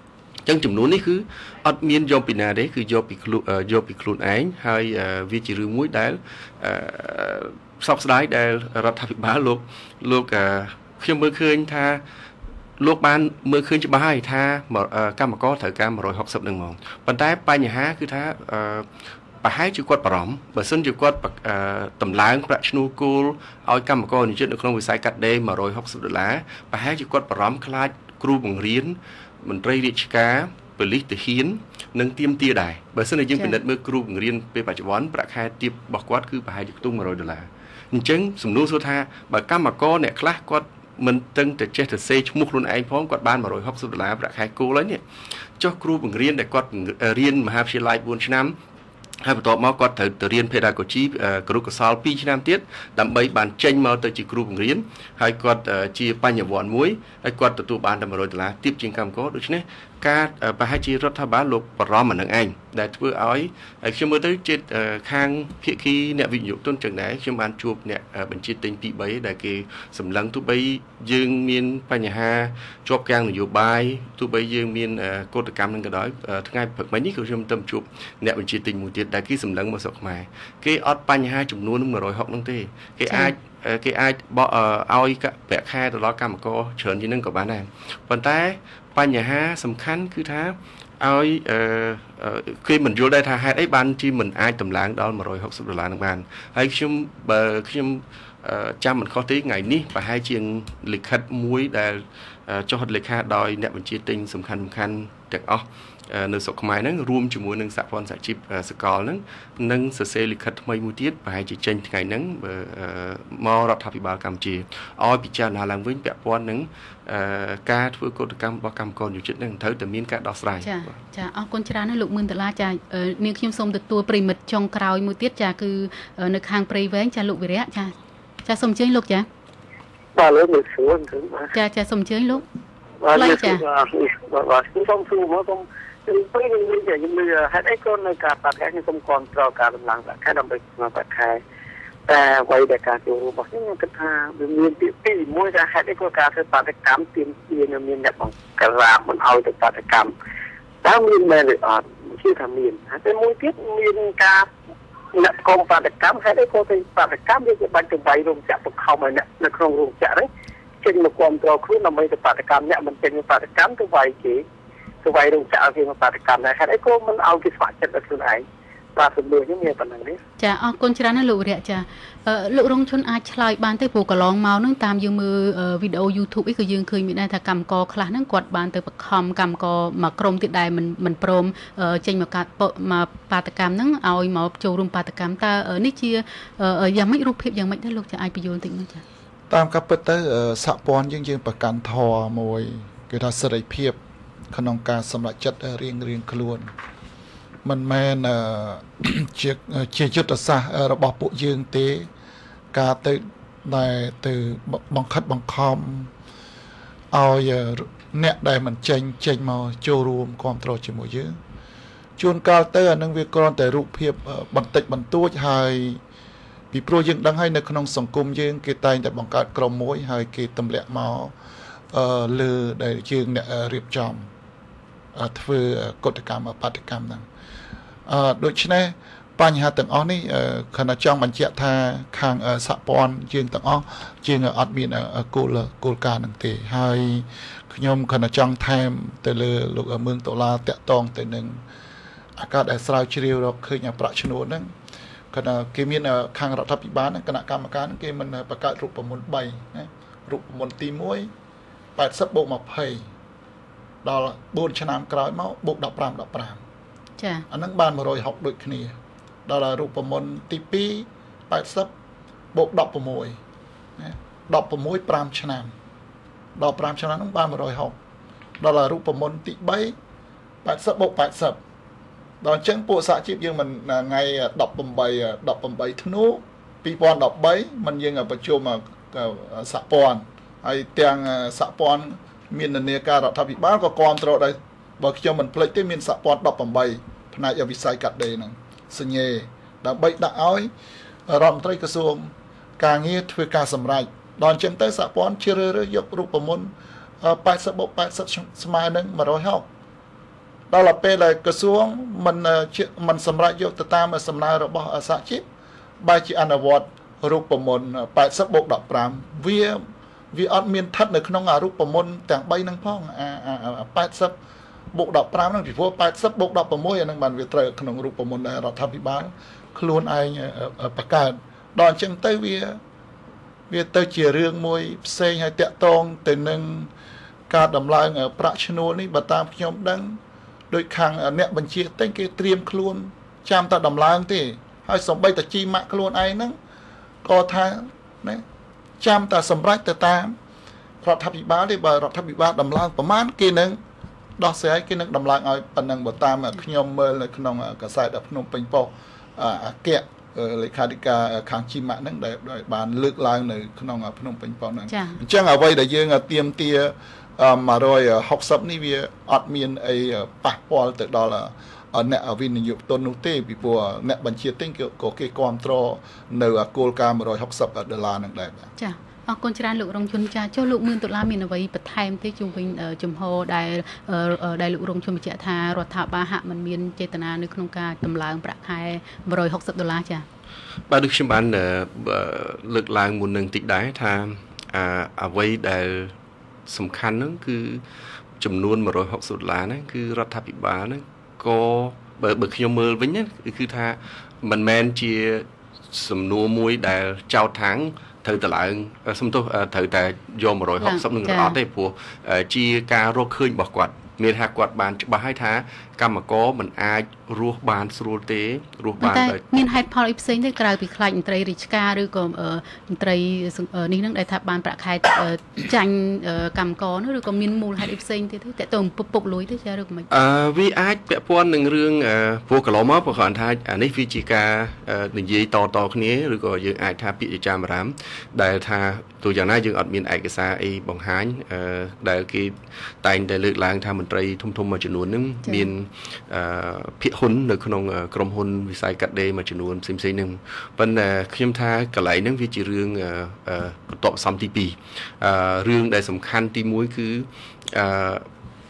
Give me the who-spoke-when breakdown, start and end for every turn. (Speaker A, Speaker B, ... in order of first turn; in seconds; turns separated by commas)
Speaker A: 0.5-12.0, Speaker A: 12.8-18.9, Speaker A: 19.4-45.0, Speaker A: 45.6-48.5, Speaker A: 49.2-120.9, Speaker B: 83.1-83.3, Speaker B: 120.6-127.9, Speaker B: 128.5-129.3, Speaker C: 130.2-131.5, Speaker B: 131.5-132.4, Speaker C: 133.0-141.4, Speaker B: 133.1-133.6, Speaker C: 142.1-150.1, Speaker C: 150.8-154.5, Speaker C: 155.1-160.3, Speaker C: 160.8-164.4, Speaker C: 165.0-168.4, Speaker C: 169.0-170.2, Speaker B: 170.4-189.0, Speaker D: 189.5-194.0, Speaker D: 194.5-196.7, Speaker D: 197.6-202.1, Speaker D: 202.7-206.1, Speaker D: 207.1-211.4, Speaker D: 212.2-216.0, Speaker D: 216.7-221.3, Speaker D: 221.9-224.3, Speaker D: 225.2-227.3, Speaker D: 228.1-241.6, Speaker D: 242.4-244.7, Speaker D: 245.3-251.3, Speaker D: 252.0-253.1, Speaker D: 254.0-256.6, Speaker B: 257.2-257.5, Speaker D: 257.5-258.9, Speaker D: 259.5-261.9, Speaker D: 262.5-263.4, Speaker D: 264.0-265.7, Speaker D: 266.6-268.0, Speaker D: 268.6-269.9, Speaker D: 270.6-271.6, Speaker D: 272.4-290.7, Speaker D: 291.3-299.7, Speaker D: 300.7-305.4, Speaker D: 306.0-314.4, Speaker D: 314.9-322.8, Speaker D: 323.7-326.9, Speaker D: 327.5-330.2, Speaker D: 330.7-336.6, Speaker D: 337.2-338.4, Speaker D: 339.0-340.4, Speaker D: 341.0-343.8, Speaker D: 344.4-368.7, Speaker B: 354.9-355.2, Speaker B: 368.8-380.2, Speaker A: 380.9-386.1, Speaker A: 386.7-387.8, Speaker A: 388.4-409.4, Speaker B: 400.8-401.6, Speaker B: 409.0-420.1, Speaker A: 420.1-448.3, Speaker B: 435.4-435.7